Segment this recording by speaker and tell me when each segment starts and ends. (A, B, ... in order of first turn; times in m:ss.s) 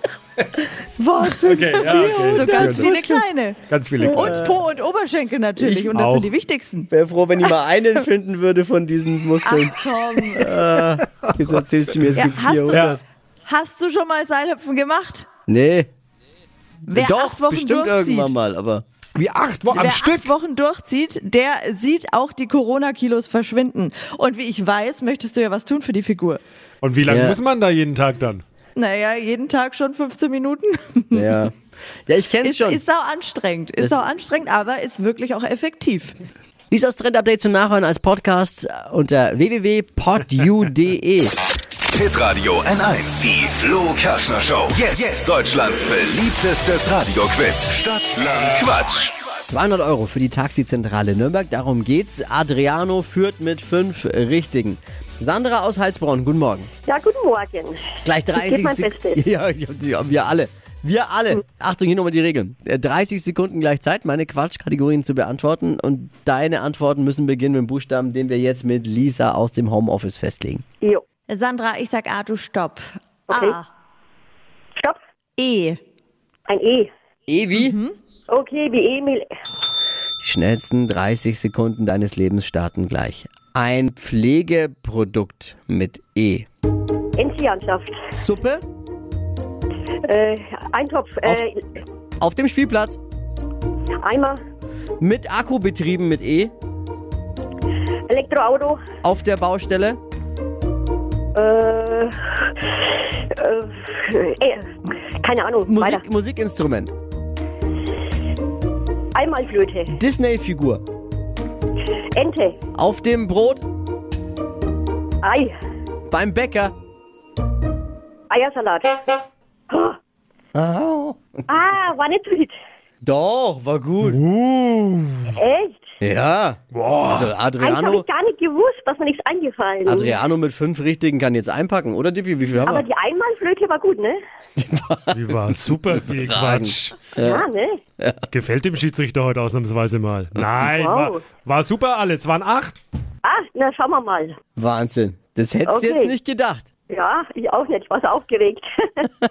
0:00.8-0:03.2 A
0:01.4-0:02.9 B
0:01.7-0:06.9 C
0:03.7-0:04.5 B
0:04.1-0:04.4 A
0:05.6-0:06.0 A
0:05.9-0:06.3 B
0:06.9-0:12.9 A
0:09.4-0:10.5 C
0:12.1-0:15.3 C
0:12.7-0:13.0 B
0:15.5-0:15.9 A
0:16.9-0:18.8 A
0:16.9-0:18.3 C
0:19.2-0:20.3 B
0:19.7-0:26.4 C
0:26.8-0:28.4 B
0:27.0-0:27.4 A
0:28.8-0:31.4 C
0:31.1-0:31.6 A
0:32.1-0:32.8 A
0:32.4-0:36.2 C
0:33.8-0:34.0 A
0:36.7-0:41.4 A
0:41.9-0:49.2 D
0:49.5-0:56.7 A
0:56.9-0:59.2 E
0:58.0-1:10.6 A
1:11.3-1:13.7 C
1:13.3-1:13.6 E
1:15.4-1:15.8 C
1:16.5-1:16.9 E
1:17.3-1:17.8 A
1:17.6-1:17.9 C
1:18.3-1:19.3 E
1:20.2-1:26.5 A
1:27.2-1:28.0 E
1:28.2-1:28.6 A
1:30.1-1:31.6 E
1:32.2-1:33.0 A
1:34.0-1:34.4 E
1:35.0-1:36.5 A
1:38.1-1:38.8 E
1:39.0-1:40.0 A
1:41.4-1:42.1 E
1:43.3-1:46.0 E
1:45.6-1:46.9 A
1:49.1-1:50.0 E
1:49.9-1:50.8 A
1:52.1-1:52.6 E
1:52.8-1:53.6 A
1:55.2-1:55.5 E
1:56.1-1:56.7 A
1:58.3-1:59.2 E
1:59.7-2:00.0 E
2:00.6-2:01.4 A
2:01.5-2:02.6 E
2:03.0-2:04.2 A
2:04.2-2:05.1 B
2:05.4-2:05.8 E
2:06.0-2:06.6 A
2:06.7-2:07.3 B
2:07.1-2:08.1 A
2:07.6-2:10.2 E
2:09.8-2:12.9 A
2:12.6-2:14.2 E
2:14.6-2:15.2 A
2:15.1-2:17.1 B
2:15.7-2:17.5 A
2:17.2-2:17.8 E
2:18.3-2:22.8 B
2:20.7-2:21.1 E
2:23.2-2:24.4 E
2:24.6-2:26.7 A
2:25.7-2:26.1 E
2:26.9-2:29.1 E